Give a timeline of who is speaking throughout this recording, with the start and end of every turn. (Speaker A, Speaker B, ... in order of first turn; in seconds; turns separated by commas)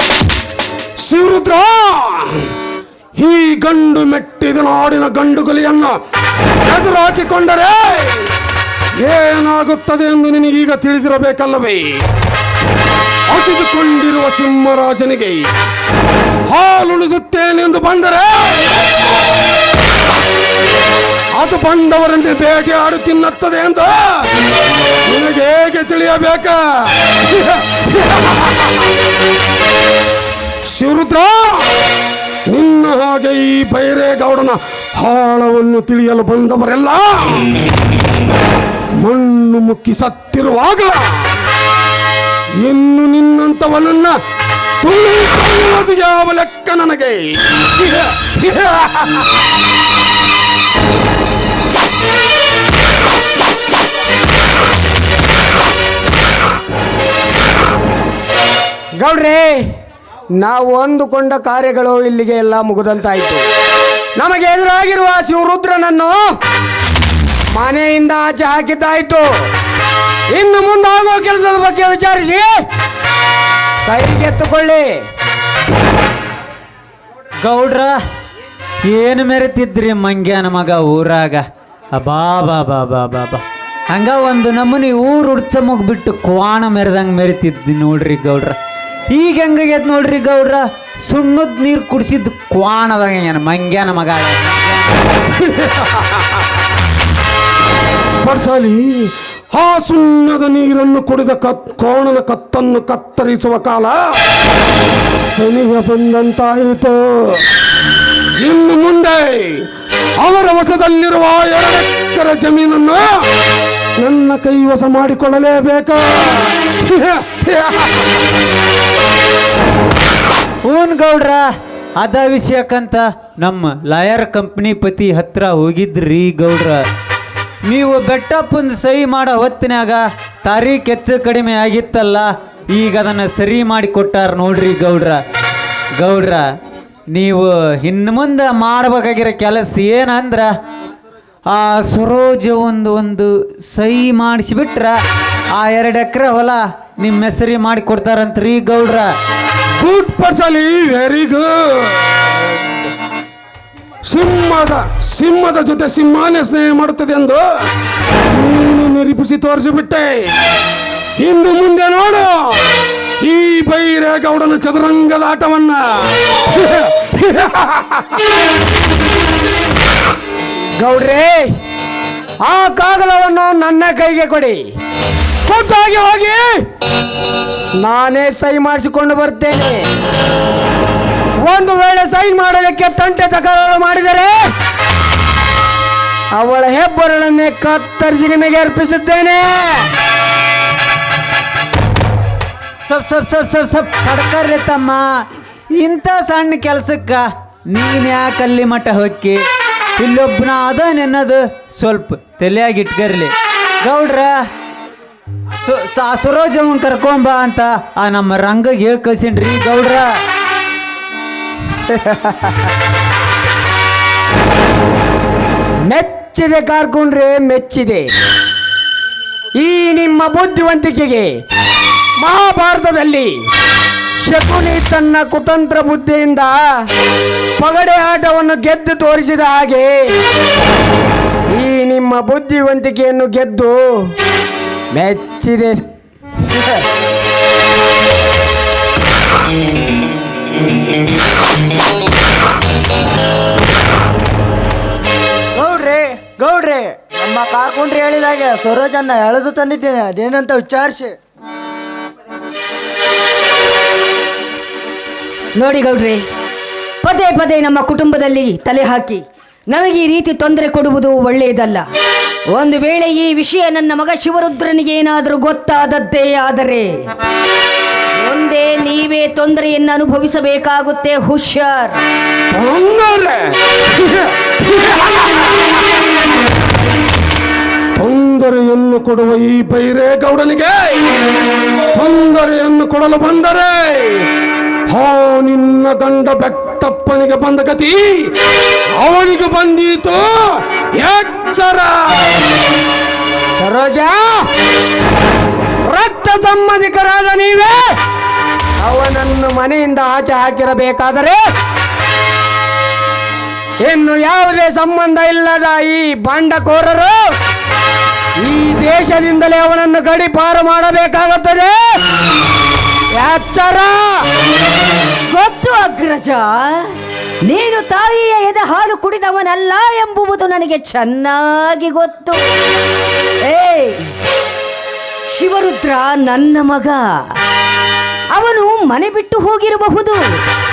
Speaker A: 1.0-2.4, Speaker A: 3.1-5.9, Speaker A: 6.6-8.3, Speaker A: 9.0-11.8, Speaker A: 13.3-15.4, Speaker A: 16.5-18.7, Speaker A: 21.3-24.3, Speaker A: 25.1-28.8, Speaker A: 30.7-31.7, Speaker A: 32.5-37.5, Speaker A: 39.0-41.2, Speaker A: 42.6-44.1, Speaker A: 44.8-49.2, Speaker B: 59.0-59.6, Speaker B: 60.4-63.5, Speaker B: 64.2-66.2, Speaker B: 67.5-69.3, Speaker B: 70.3-72.5, Speaker B: 73.8-74.9, Speaker C: 77.4-78.0, Speaker C: 78.8-88.6, Speaker C: 89.1-94.7, Speaker A: 95.4-96.2, Speaker A: 98.2-104.0, Speaker A: 105.3-107.4, Speaker A: 108.4-109.6, Speaker A: 110.2-113.1, Speaker A: 114.0-118.1, Speaker C: 120.6-121.5, Speaker C: 122.0-126.8, Speaker C: 127.7-135.2, Speaker C: 136.0-136.4, Speaker C: 137.1-140.5, Speaker C: 141.5-144.9, Speaker C: 145.5-149.1, Speaker A: 149.8-152.2, Speaker A: 154.0-157.4, Speaker A: 158.3-160.3, Speaker A: 161.2-162.6, Speaker A: 163.2-168.1, Speaker B: 170.8-171.4, Speaker B: 172.4-174.6, Speaker B: 175.4-176.5, Speaker B: 177.8-179.8, Speaker B: 181.4-184.3, Speaker B: 186.3-189.9, Speaker C: 192.9-199.4, Speaker C: 200.0-204.4, Speaker C: 205.6-210.1, Speaker B: 212.0-212.5, Speaker B: 215.8-218.1, Speaker B: 219.6-221.3, Speaker B: 222.2-223.3, Speaker B: 224.2-226.6, Speaker B: 227.6-229.9, Speaker B: 231.5-233.8, Speaker B: 234.9-235.8, Speaker D: 245.5-251.1, Speaker E: 255.6-256.2, Speaker E: 257.0-261.9, Speaker E: 262.5-266.9, Speaker E: 268.2-272.0, Speaker A: 272.5-275.6, Speaker A: 278.0-281.0, Speaker A: 281.9-284.3, Speaker A: 284.9-288.3, Speaker A: 288.9-290.3, Speaker A: 291.0-292.4, Speaker B: 293.6-294.2, Speaker B: 295.9-297.8, Speaker B: 298.8-301.4, Speaker B: 303.8-307.2, Speaker B: 308.4-311.8, Speaker B: 313.1-314.0, Speaker E: 315.3-316.9, Speaker E: 317.4-322.4, Speaker E: 323.4-324.0, Speaker E: 325.3-327.1, Speaker E: 328.3-330.3